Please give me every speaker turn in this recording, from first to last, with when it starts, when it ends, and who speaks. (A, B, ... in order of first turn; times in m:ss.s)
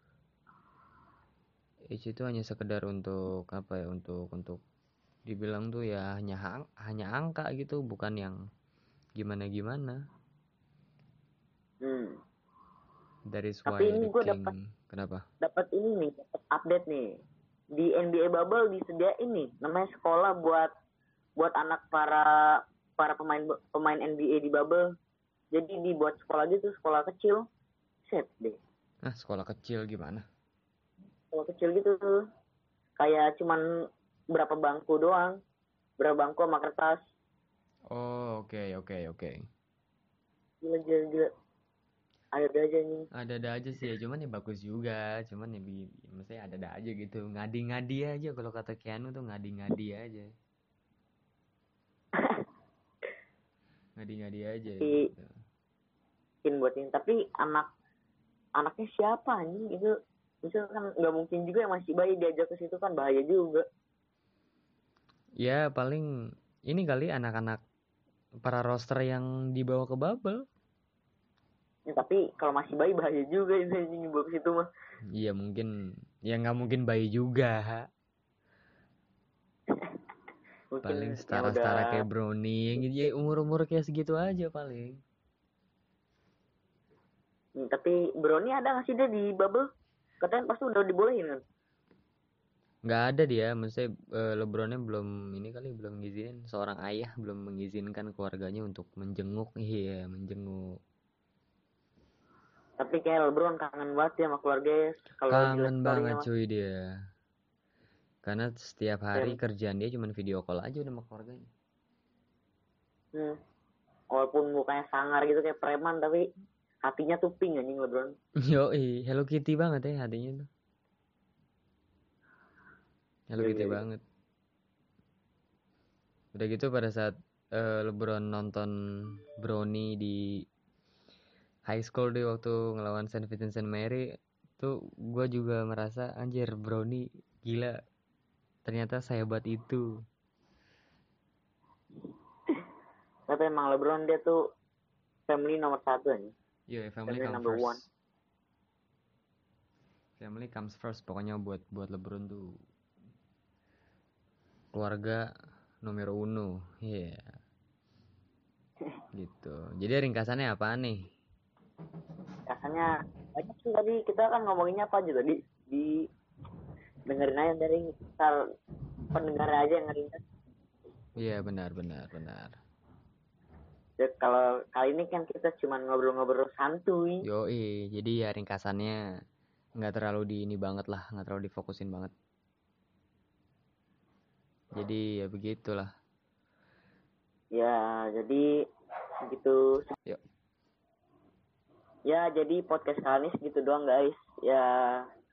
0:01.9-0:04.6 A
0:05.3-0:08.4 A
0:09.2-0:10.0 A
0:11.8-0:12.2 B
0:13.3-0:15.2 A
0:13.6-0:14.5 B
0:15.4-0:17.2 B
0:17.7-0:20.7 B
0:21.4-0:24.9 B
0:25.5-0:27.4 B
0:28.0-0:28.6 B
0:29.0-0:30.2 A
0:31.3-0:32.2 B
0:33.0-0:33.6 B
0:34.3-0:35.4 B
0:36.0-0:37.0 B
0:37.9-0:39.4 A
0:40.6-0:41.3 B
0:42.3-0:43.1 B
0:43.1-0:50.3 A
0:52.2-0:52.4 B
0:54.0-0:55.3 A
0:54.8-0:55.1 B
0:56.4-0:57.7 B
0:58.6-1:03.6 B
1:05.4-1:06.1 A
1:06.7-1:07.6 A
1:08.4-1:10.4 A
1:11.9-1:14.6 B
1:15.1-1:15.7 A
1:16.3-1:17.9 A
1:20.7-1:22.0 B
1:20.8-1:25.0 A
1:27.6-1:29.7 B
1:30.2-1:31.4 B
1:32.8-1:40.8 A
1:42.8-1:46.2 B
1:45.3-1:46.9 A
1:48.2-1:51.5 A
1:54.1-1:56.3 B
1:56.8-1:58.1 B
1:58.4-2:00.5 A
2:03.3-2:04.0 A
2:03.4-2:03.8 B
2:06.3-2:10.2 A
2:11.6-2:14.1 A
2:14.6-2:17.8 A
2:18.6-2:19.9 A
2:23.3-2:24.4 B
2:25.3-2:26.3 B
2:26.7-2:27.9 A
2:27.1-2:27.8 B
2:30.2-2:32.5 A
2:34.7-2:35.2 A
2:35.8-2:37.3 A
2:39.1-2:41.1 A
2:42.5-2:46.0 B
2:47.1-2:48.4 B
2:49.1-2:50.2 B
2:51.2-2:52.5 A
2:54.0-2:57.2 B
2:57.2-2:59.0 A
2:59.8-3:02.1 A
3:04.7-3:05.9 A
3:07.5-3:08.5 B
3:09.2-3:09.9 B
3:12.1-3:15.0 B